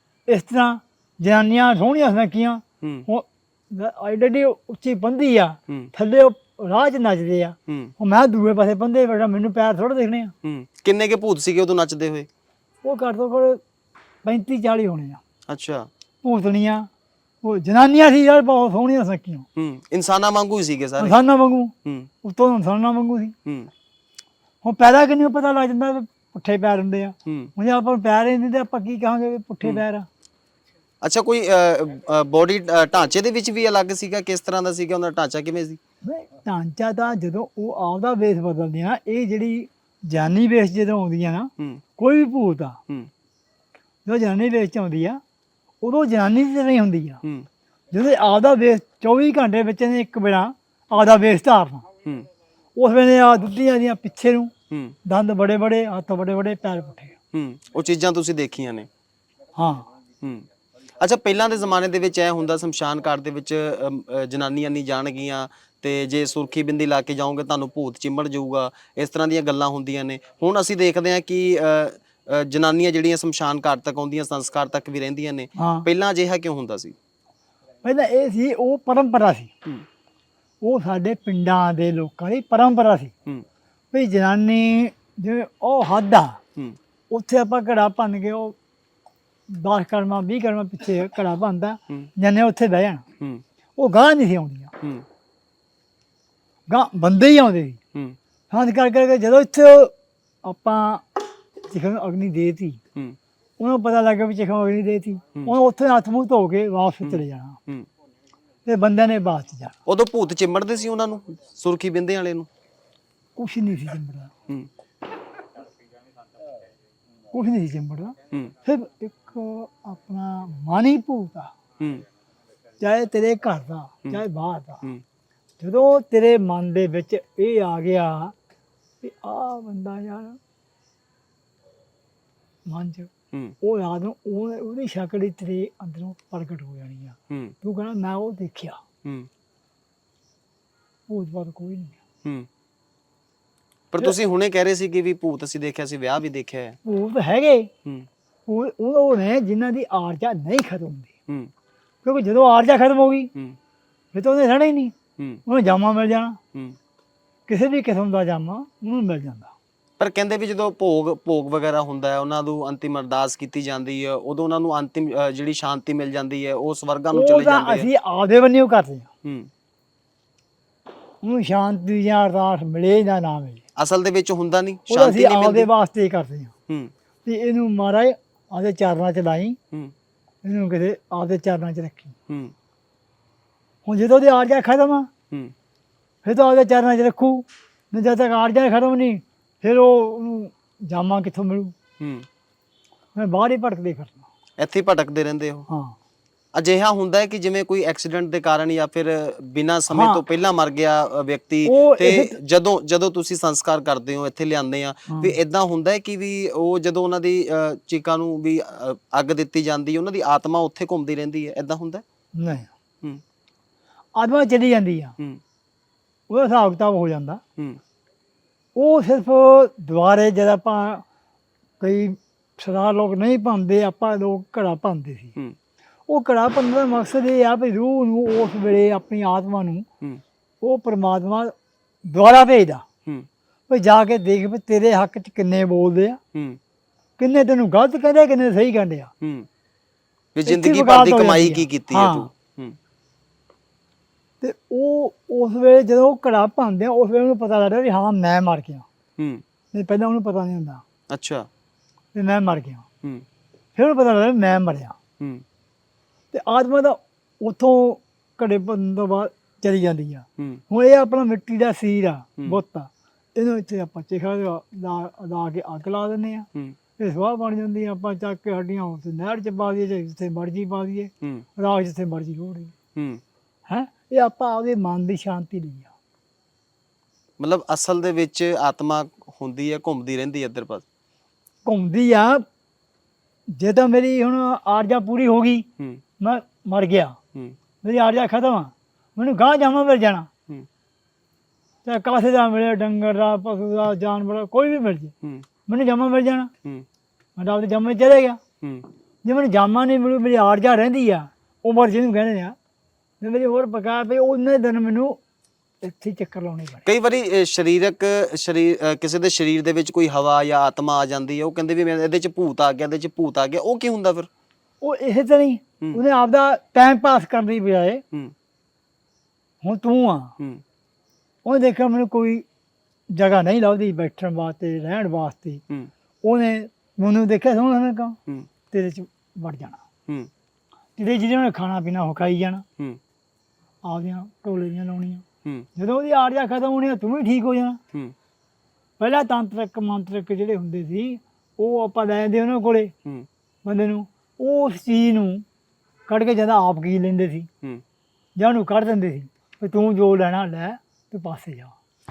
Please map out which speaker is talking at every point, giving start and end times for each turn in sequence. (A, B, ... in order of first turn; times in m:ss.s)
0:00.3-0:10.3 A
0:07.7-0:07.9 B
0:10.4-0:12.3 B
0:12.8-0:13.6 A
0:14.2-0:15.2 A
0:15.5-0:15.9 B
0:16.2-0:16.9 A
0:17.4-0:19.4 A
0:19.6-0:21.2 B
0:21.0-0:23.3 A
0:23.4-0:23.7 B
0:24.6-0:30.1 A
0:27.2-0:27.5 B
0:31.0-0:35.8 B
0:36.0-0:42.8 A
0:44.0-0:45.2 A
0:45.8-0:47.2 A
0:47.9-0:51.8 A
0:52.8-0:54.5 A
0:55.0-0:57.1 A
0:57.3-0:58.9 B
0:59.6-0:59.9 A
1:00.2-1:00.5 B
1:01.0-1:17.0 B
1:15.6-1:15.9 A
1:17.8-1:19.5 A
1:20.6-1:23.1 A
1:23.9-1:26.4 A
1:27.1-1:28.6 A
1:29.5-1:33.0 A
1:33.8-1:34.7 A
1:36.7-1:37.8 A
1:38.5-1:39.9 A
1:40.4-1:41.2 A
1:41.7-1:42.8 A
1:43.6-1:47.6 A
1:47.0-1:47.9 B
1:48.6-1:49.7 A
1:49.8-1:52.5 B
1:53.4-1:54.3 A
1:57.3-2:01.5 A
2:01.8-2:02.0 B
2:02.8-2:04.8 A
2:05.6-2:08.3 A
2:09.0-2:10.4 A
2:12.6-2:13.1 A
2:13.6-2:18.8 A
2:17.3-2:17.5 B
2:21.1-2:22.0 A
2:23.9-2:26.8 B
2:26.8-2:27.7 A
2:28.5-2:31.1 A
2:32.0-2:33.3 A
2:34.1-2:34.9 A
2:35.4-2:36.4 A
2:37.5-2:39.5 A
2:40.0-2:47.9 B
2:47.1-2:49.1 A
2:49.2-2:49.5 B
2:51.2-2:53.6 A
2:53.8-2:55.7 B
2:54.9-2:56.5 A
2:57.2-2:59.6 A
3:00.4-3:02.1 A
3:02.3-3:02.5 B
3:03.8-3:05.1 A
3:06.2-3:11.7 A
3:12.0-3:12.2 B
3:13.1-3:14.2 A
3:14.6-3:15.7 B
3:15.7-3:15.9 A
3:16.5-3:32.0 B
3:19.9-3:20.2 A
3:21.6-3:22.4 A
3:25.1-3:25.4 A
3:32.4-3:32.7 A
3:34.2-3:35.1 A
3:36.3-3:37.4 A
3:38.8-3:41.0 A
3:41.8-3:45.3 A
3:46.1-3:49.8 A
3:50.6-3:51.5 A
3:52.1-3:52.8 A
3:53.7-3:56.2 A
3:56.3-3:56.6 B
3:57.2-3:59.1 A
3:59.2-3:59.5 B
4:00.3-4:02.8 B
4:00.4-4:02.3 A
4:04.4-4:08.8 A
4:09.2-4:09.4 B
4:09.7-4:10.8 A
4:11.1-4:11.5 B
4:12.1-4:12.8 A
4:13.8-4:15.0 A
4:16.3-4:32.7 A
4:33.0-4:33.2 B
4:33.7-4:35.9 A
4:37.4-4:40.8 B
4:41.6-4:42.4 A
4:43.5-4:45.6 A
4:46.2-4:47.2 A
4:47.8-4:50.3 A
4:51.8-4:55.1 A
4:55.7-4:56.5 A
4:57.4-4:58.4 A
4:58.6-4:58.9 B
4:59.2-5:02.6 A
5:03.2-5:05.2 A
5:05.8-5:06.8 A
5:06.8-5:14.3 B
5:14.8-5:18.0 A
5:19.6-5:20.3 A
5:21.4-5:22.4 A
5:23.1-5:25.6 A
5:26.2-5:28.2 A
5:28.7-5:29.8 A
5:31.0-5:32.6 A
5:33.8-5:35.2 A
5:35.8-5:37.8 A
5:39.0-5:42.9 A
5:43.6-5:45.4 A
5:46.1-5:47.5 A
5:48.4-5:51.7 A